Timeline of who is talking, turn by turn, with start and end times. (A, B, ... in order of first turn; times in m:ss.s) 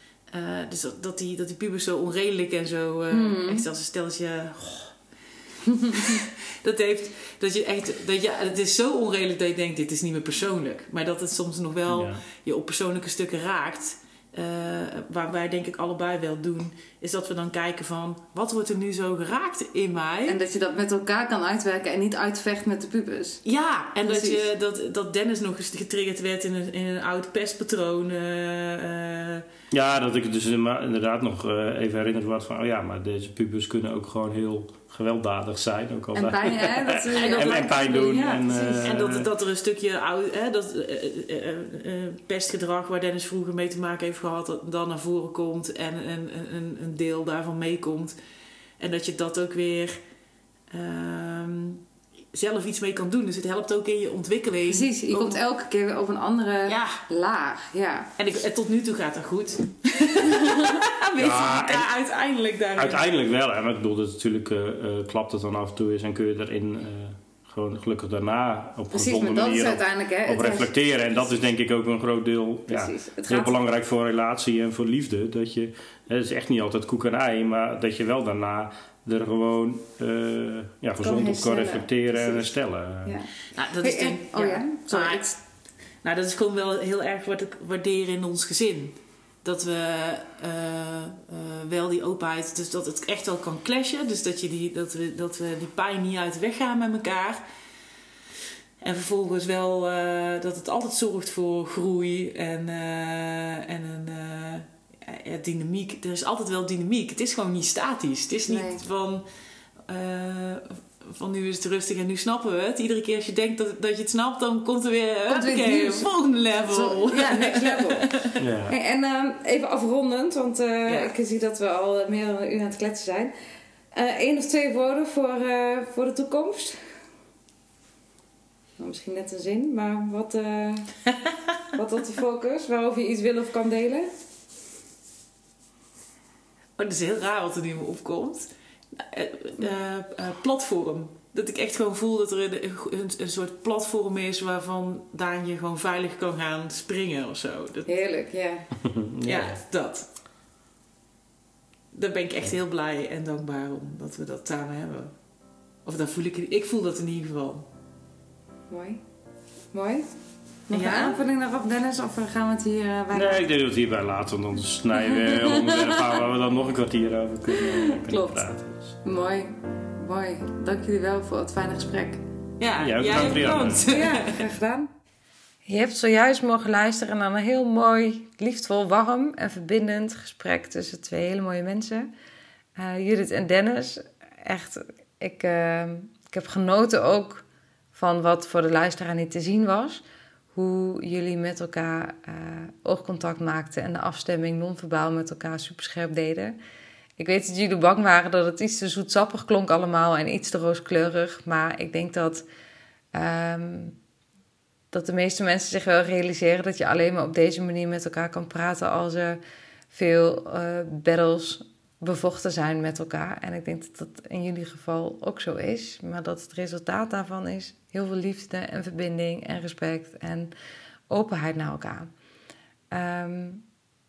0:00.3-0:05.0 A
0:03.1-0:03.6 B
0:05.7-0:06.2 B
0:05.9-0:20.4 A
0:11.9-0:12.2 C
0:20.3-0:23.4 B
0:23.4-0:29.4 A
0:24.0-0:24.4 B
0:29.7-0:39.3 C
0:36.1-0:39.0 B
0:37.1-0:38.2 A
0:38.8-0:48.2 A
0:48.8-0:50.0 A
0:50.7-0:51.8 A
0:52.3-0:55.4 A
0:54.7-0:58.1 B
0:56.7-0:57.0 A
0:58.2-1:03.0 A
1:00.3-1:00.7 B
1:01.2-1:01.9 C
1:02.8-1:23.2 C
1:08.9-1:10.7 B
1:12.7-1:13.6 B
1:21.0-1:22.5 B
1:23.0-1:23.3 B
1:23.5-1:25.4 A
1:23.8-1:25.4 B
1:26.0-1:37.4 A
1:38.8-1:49.2 A
1:48.5-1:48.8 B
1:49.9-1:58.4 A
1:55.3-1:56.1 B
1:56.7-2:03.3 B
1:58.4-1:58.8 C
2:00.9-2:01.1 A
2:03.9-2:06.8 B
2:08.8-2:10.9 B
2:11.8-2:14.1 B
2:16.8-2:27.9 A
2:27.9-2:28.7 B
2:28.8-2:29.6 C
2:29.3-2:30.1 A
2:31.9-2:35.1 A
2:35.8-2:37.6 A
2:38.7-2:39.0 B
2:39.7-2:40.0 B
2:40.7-2:43.5 B
2:40.7-2:41.2 A
2:43.1-2:49.0 C
2:45.1-2:46.1 B
2:47.6-2:48.4 B
2:49.0-2:52.2 B
2:52.6-2:54.4 A
2:52.8-2:53.9 C
2:53.9-2:54.9 B
2:55.6-3:02.1 B
3:02.8-3:16.6 B
3:17.2-3:22.4 B
3:23.1-3:24.0 B
3:24.9-3:29.4 B
3:29.9-3:40.5 B
3:41.1-3:42.1 B
3:42.9-3:43.6 B